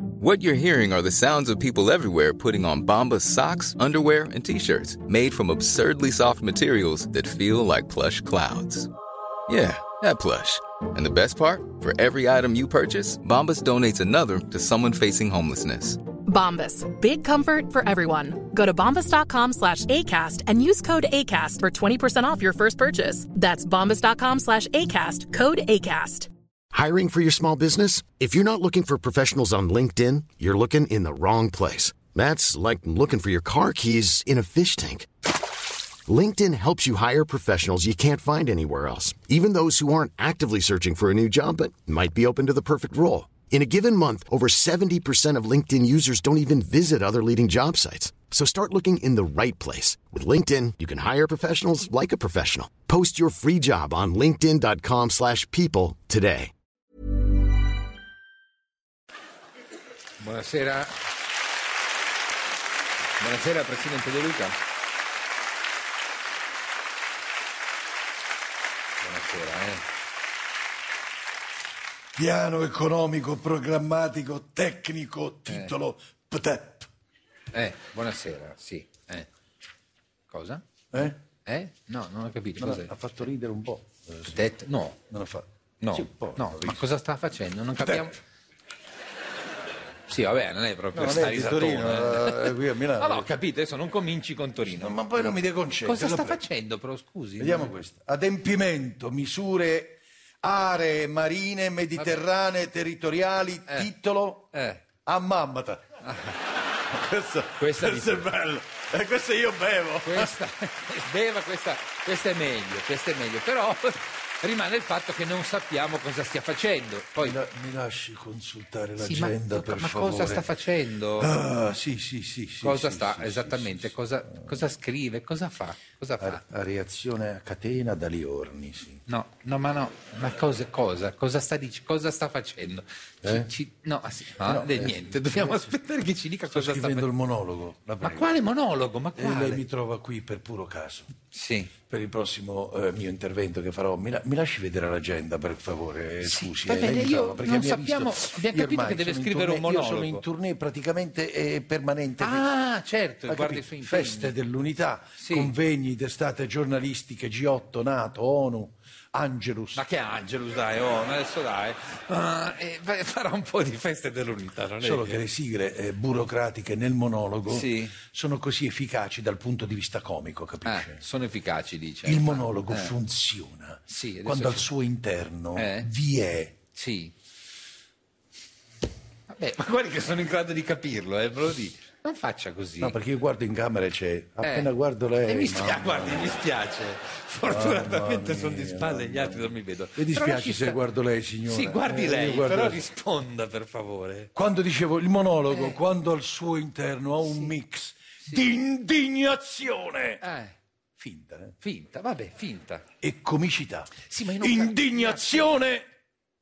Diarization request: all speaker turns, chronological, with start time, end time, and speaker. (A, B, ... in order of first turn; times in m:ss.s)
0:00.2-0:08.9 A
0:09.5-0:16.0 A
0:16.2-0:26.3 B
0:26.7-0:35.1 C
0:36.1-0:56.5 C
1:00.2-1:00.9 D
1:03.2-1:04.5 D
1:09.0-1:09.8 D
1:12.2-1:16.9 E
1:15.5-1:15.7 D
1:17.5-1:19.3 D
1:20.3-1:22.9 D
1:20.9-1:21.2 E
1:22.6-1:24.4 E
1:24.3-1:25.0 D
1:25.1-1:26.8 E
1:25.8-1:28.2 D
1:27.8-1:28.1 E
1:30.1-1:37.7 D
1:30.9-1:33.3 E
1:34.6-1:36.4 E
1:37.4-1:44.5 E
1:44.5-1:44.8 D
1:45.0-1:45.8 E
1:46.0-1:46.4 D
1:46.9-1:50.3 E
1:47.6-1:48.3 D
1:50.0-1:57.4 D
1:57.2-2:00.5 E
1:59.0-2:01.3 D
2:01.2-2:03.9 E
2:02.6-2:06.4 D
2:06.2-2:09.0 E
2:09.1-2:17.1 D
2:13.2-2:13.5 E
2:14.4-2:15.6 E
2:16.5-2:18.3 E
2:18.0-2:19.6 D
2:19.2-2:21.1 E
2:21.3-2:21.7 D
2:21.9-2:32.5 E
2:26.2-2:30.2 D
2:32.2-2:34.3 D
2:33.3-2:39.8 E
2:35.2-2:35.5 D
2:39.7-2:45.2 D
2:44.8-2:51.0 E
2:47.5-2:48.0 D
2:50.6-2:52.9 D
2:52.0-2:56.6 E
2:53.9-2:54.7 D
2:55.6-2:55.9 D
2:56.7-2:57.1 D
2:59.3-3:03.0 D
3:02.8-3:06.4 E
3:04.4-3:04.7 D
3:05.2-3:10.8 D
3:07.4-3:12.8 E
3:11.4-3:14.3 D
3:14.3-3:20.2 E
3:15.5-3:15.8 D
3:20.2-3:20.5 D
3:21.0-3:21.5 E
3:21.6-3:22.8 D
3:23.0-3:25.8 E
3:24.1-3:25.6 D